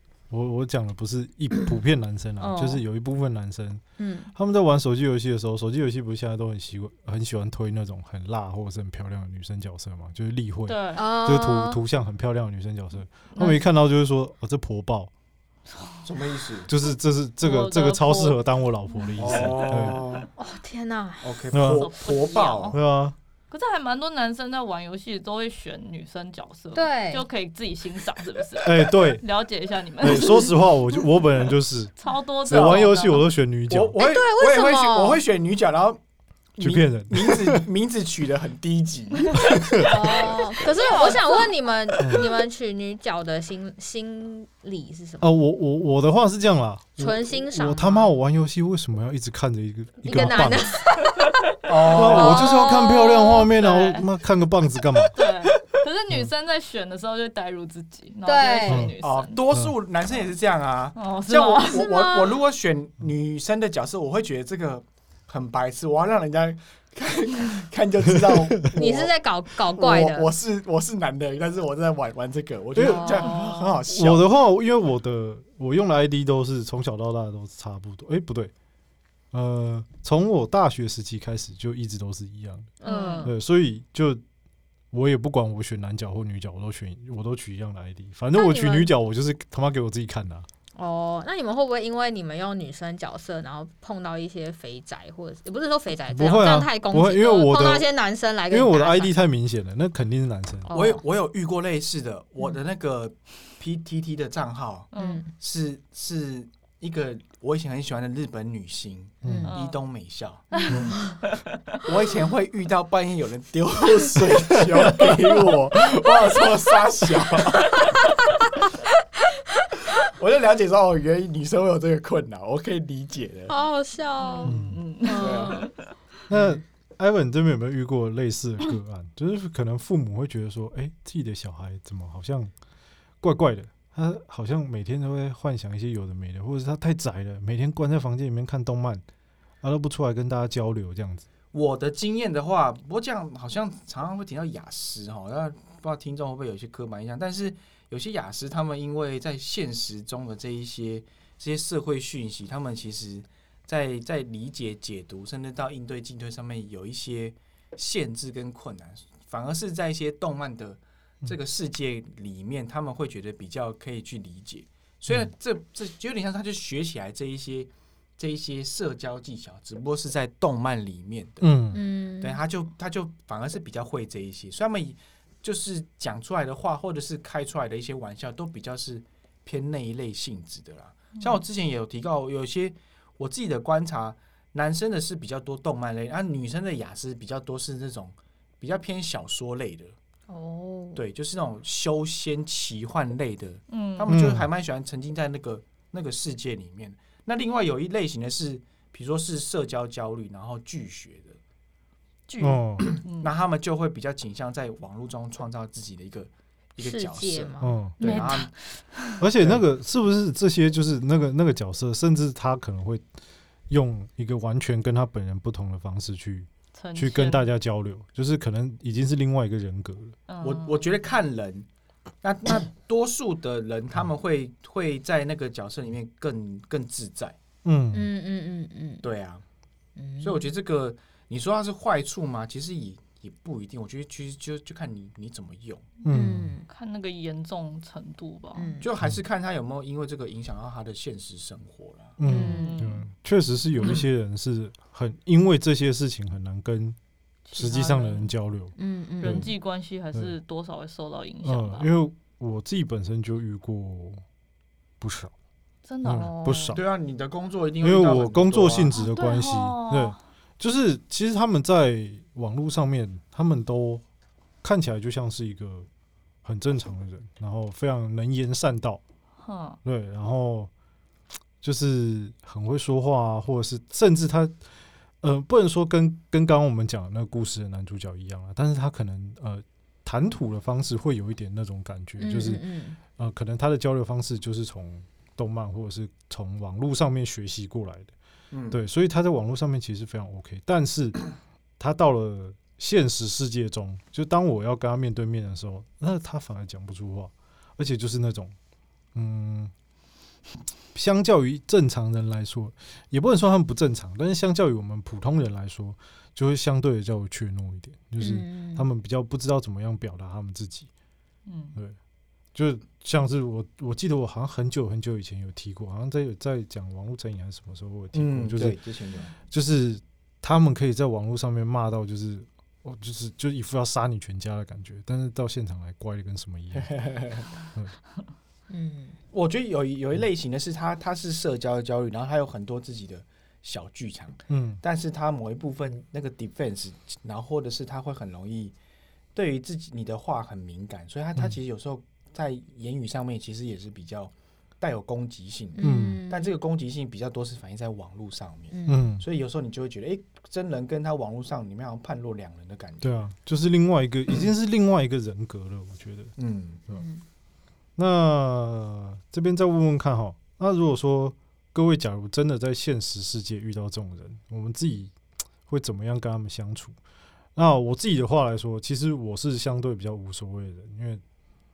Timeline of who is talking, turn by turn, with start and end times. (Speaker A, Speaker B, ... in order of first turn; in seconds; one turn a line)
Speaker A: 0.3-3.8
Speaker B: 2.4-2.8
Speaker B: 4.0-4.3
Speaker A: 4.3-15.1
Speaker C: 10.7-11.0
Speaker B: 10.9-11.8
Speaker C: 13.3-13.6
Speaker D: 16.0-16.7
Speaker A: 16.7-20.1
Speaker C: 17.4-18.4
Speaker D: 19.2-20.3
Speaker B: 20.4-21.4
Speaker D: 21.2-22.8
Speaker A: 21.5-21.9
Speaker C: 21.6-22.8
Speaker A: 22.7-23.2
Speaker C: 23.5-30.6
Speaker B: 26.8-27.2
Speaker A: 28.6-29.2
Speaker A: 30.0-31.9
Speaker C: 32.0-33.3
Speaker A: 32.5-34.0
Speaker D: 32.5-32.9
Speaker D: 33.7-36.0
Speaker B: 34.0-35.2
Speaker D: 36.6-39.6
Speaker A: 36.6-37.6
Speaker A: 39.4-39.9
Speaker B: 39.8-45.4
Speaker C: 40.0-41.5
Speaker A: 42.0-42.3
Speaker A: 45.2-50.8
Speaker B: 47.0-48.1
Speaker B: 50.0-51.4
Speaker D: 51.6-52.5
Speaker A: 51.9-55.2
Speaker B: 51.9-52.9
Speaker C: 52.0-54.1
Speaker C: 55.1-59.4
Speaker B: 58.2-58.9
Speaker A: 58.7-58.9
Speaker D: 59.0-69.1
Speaker C: 61.0-61.9
Speaker B: 61.7-62.3
Speaker B: 68.8-70.3
Speaker D: 69.7-74.3
Speaker A: 72.8-73.3
Speaker B: 72.8-73.4
Speaker C: 73.2-73.7
Speaker A: 73.9-78.5
Speaker A: 79.3-82.7
Speaker B: 82.8-83.3
Speaker C: 82.8-83.3
Speaker A: 83.2-84.2
Speaker A: 84.9-90.5
Speaker B: 88.3-88.9
Speaker B: 90.8-99.1
Speaker A: 96.1-97.9
Speaker A: 98.5-100.7
Speaker B: 100.7-101.0
Speaker D: 100.7-110.5
Speaker C: 104.9-105.2
Speaker B: 105.0-105.3
Speaker A: 109.2-109.5
Speaker B: 109.2-109.5
Speaker C: 109.4-109.8
Speaker C: 110.5-111.5
Speaker B: 110.6-111.2
Speaker D: 111.8-117.8
Speaker D: 120.1-123.5
Speaker B: 123.5-125.7
Speaker C: 124.2-125.8
Speaker A: 124.5-124.8
Speaker D: 125.2-125.7
Speaker A: 126.3-132.5
Speaker A: 133.2-139.0
Speaker A: 139.6-141.3
Speaker D: 141.5-189.9
Speaker A: 171.4-171.8
Speaker B: 171.7-172.4
Speaker B: 190.3-191.0
Speaker D: 190.9-201.4
Speaker C: 193.7-194.1
Speaker A: 194.1-194.5
Speaker D: 202.3-208.5
Speaker A: 202.4-202.9
Speaker C: 203.1-203.3
Speaker B: 206.8-208.3
Speaker A: 207.6-208.0
Speaker C: 208.0-209.2
Speaker A: 209.2-213.0
Speaker A: 213.7-220.2
Speaker C: 216.7-217.4
Speaker C: 220.3-220.8
Speaker D: 220.4-221.7
Speaker D: 222.2-227.4
Speaker A: 227.6-228.1
Speaker B: 227.9-229.1
Speaker D: 229.0-229.4
Speaker B: 230.0-230.5
Speaker D: 230.2-235.9
Speaker A: 236.0-236.6
Speaker B: 236.1-236.7
Speaker C: 236.7-238.8
Speaker B: 238.6-238.9
Speaker D: 238.8-242.2
Speaker A: 242.2-247.0
Speaker B: 242.2-242.8
Speaker C: 242.2-243.1
Speaker C: 247.5-248.3
Speaker A: 247.5-249.5
Speaker B: 248.8-249.5
Speaker C: 249.2-251.9
Speaker A: 251.4-254.2
Speaker A: 255.0-255.3
Speaker C: 255.8-256.6
Speaker A: 256.0-256.8
Speaker B: 256.1-256.8
Speaker D: 256.7-258.9
Speaker A: 257.8-264.0
Speaker C: 258.9-260.2
Speaker A: 264.6-265.9
Speaker A: 266.4-269.0
Speaker C: 269.4-269.8
Speaker A: 269.9-270.7
Speaker A: 271.6-274.6
Speaker A: 275.2-282.6
Speaker B: 282.2-283.0
Speaker A: 283.2-288.1
Speaker D: 288.5-288.8
Speaker A: 288.7-291.2
Speaker A: 291.8-298.6
Speaker A: 299.1-299.7
Speaker A: 300.9-310.9
Speaker B: 308.2-308.9
Speaker C: 311.5-311.8
Speaker A: 312.5-318.8
Speaker D: 318.1-319.3
Speaker A: 319.5-327.1
Speaker D: 326.8-327.5
Speaker B: 328.7-329.2
Speaker D: 329.3-338.8
Speaker A: 334.5-334.8
Speaker D: 339.4-353.2
Speaker B: 345.8-346.5
Speaker A: 345.8-346.2
Speaker B: 348.7-349.1
Speaker A: 348.9-349.2
Speaker A: 353.0-356.3
Speaker D: 356.4-356.8
Speaker B: 356.9-357.2
Speaker A: 358.0-365.1
Speaker A: 365.7-367.0
Speaker A: 367.6-371.2